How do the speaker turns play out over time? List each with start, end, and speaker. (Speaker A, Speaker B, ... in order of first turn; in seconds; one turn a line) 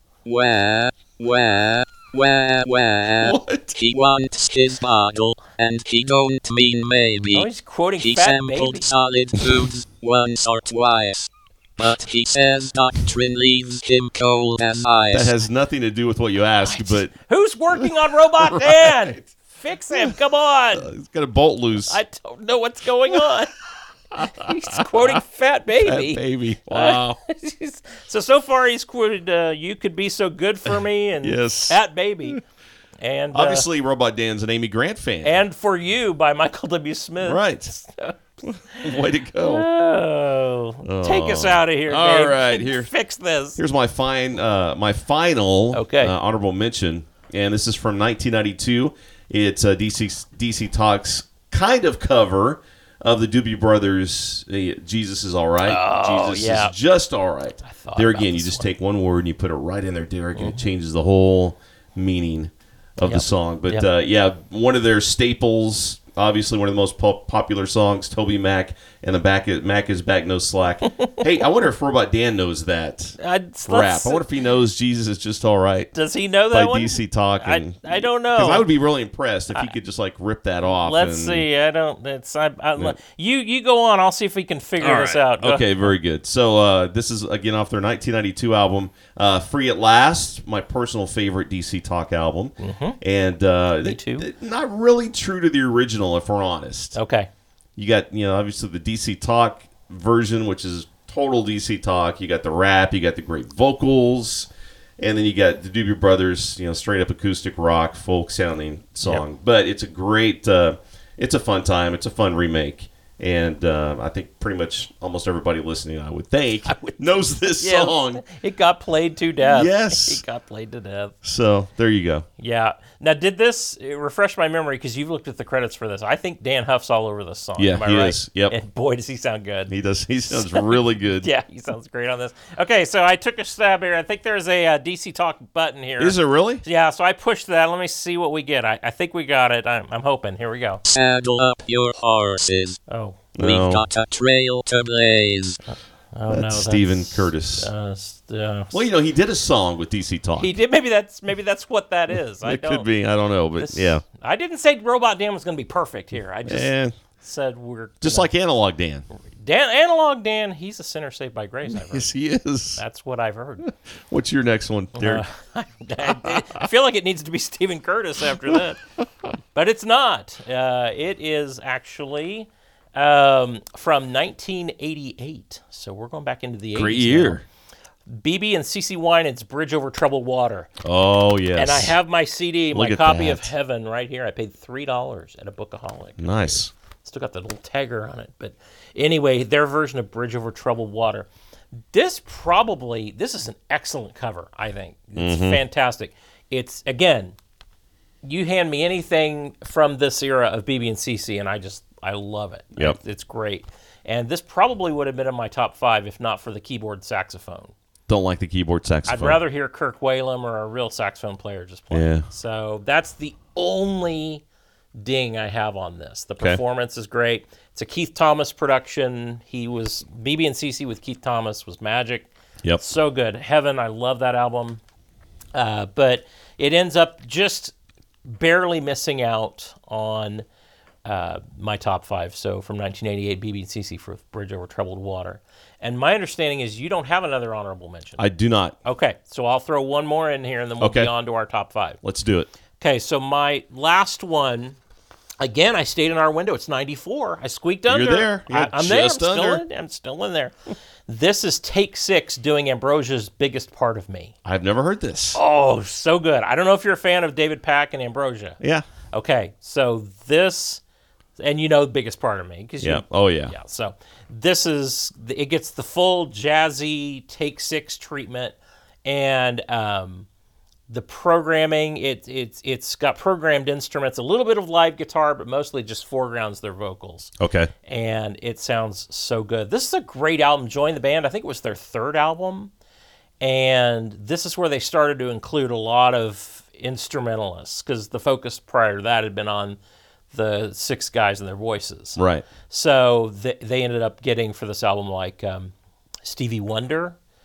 Speaker A: 0.2-7.5
Speaker B: 3.2-3.8
Speaker C: 7.3-8.9
Speaker A: 8.0-15.3
Speaker B: 15.1-17.1
Speaker C: 16.6-20.9
Speaker B: 17.8-19.2
Speaker B: 20.8-22.0
Speaker C: 21.9-23.6
Speaker B: 24.1-25.2
Speaker C: 24.2-32.4
Speaker B: 25.8-27.2
Speaker B: 31.2-32.4
Speaker C: 33.0-33.7
Speaker B: 33.3-35.4
Speaker C: 35.2-38.2
Speaker B: 37.2-37.7
Speaker B: 38.4-39.7
Speaker C: 38.7-43.6
Speaker B: 40.8-42.9
Speaker B: 43.6-75.9
Speaker C: 45.7-46.1
Speaker C: 55.6-56.7
Speaker C: 57.6-58.7
Speaker C: 60.4-60.7
Speaker C: 63.0-63.9
Speaker C: 73.2-74.2
Speaker C: 75.9-78.7
Speaker B: 76.5-81.5
Speaker C: 80.7-85.9
Speaker B: 84.8-97.0
Speaker C: 92.6-93.0
Speaker C: 93.8-94.3
Speaker C: 97.0-97.3
Speaker B: 97.8-118.2
Speaker C: 116.7-121.2
Speaker B: 119.4-120.2
Speaker B: 121.2-122.3
Speaker C: 122.4-129.7
Speaker B: 127.6-128.6
Speaker B: 129.7-131.3
Speaker C: 130.3-140.8
Speaker B: 136.0-136.6
Speaker A: 140.9-142.8
Speaker C: 142.9-143.2
Speaker B: 143.3-143.8
Speaker A: 143.4-145.6
Speaker C: 145.7-148.8
Speaker B: 146.3-147.7
Speaker B: 148.7-150.5
Speaker C: 150.4-152.9
Speaker B: 152.4-154.0
Speaker C: 153.6-158.3
Speaker B: 156.5-156.9
Speaker B: 158.0-159.1
Speaker C: 159.4-162.1
Speaker B: 161.7-162.8
Speaker C: 162.8-163.7
Speaker B: 163.7-165.2
Speaker C: 164.9-168.8
Speaker B: 166.0-166.6
Speaker C: 169.5-177.4
Speaker B: 176.8-177.4
Speaker C: 178.1-180.7
Speaker B: 180.8-181.9
Speaker C: 181.6-191.3
Speaker B: 182.7-183.5
Speaker B: 186.2-186.7
Speaker C: 191.9-197.4
Speaker B: 195.2-195.6
Speaker C: 198.2-207.7
Speaker B: 208.1-209.4
Speaker C: 209.1-214.4
Speaker B: 211.9-212.3
Speaker C: 215.0-224.8
Speaker C: 225.5-227.7
Speaker C: 228.3-230.4
Speaker C: 231.1-238.2
Speaker B: 238.2-238.8
Speaker C: 238.8-242.0
Speaker B: 240.8-241.1
Speaker B: 242.0-242.5
Speaker C: 242.8-244.8
Speaker C: 245.4-250.6
Speaker B: 247.9-249.6
Speaker C: 251.1-254.3
Speaker B: 254.4-255.4
Speaker C: 255.3-258.6
Speaker B: 258.6-258.9
Speaker C: 259.1-260.8
Speaker C: 261.4-270.3
Speaker B: 262.8-263.6
Speaker C: 270.9-277.3
Speaker B: 277.4-277.7
Speaker C: 277.9-282.7
Speaker C: 283.4-289.8
Speaker C: 290.3-295.7
Speaker B: 292.2-292.5
Speaker C: 296.2-297.2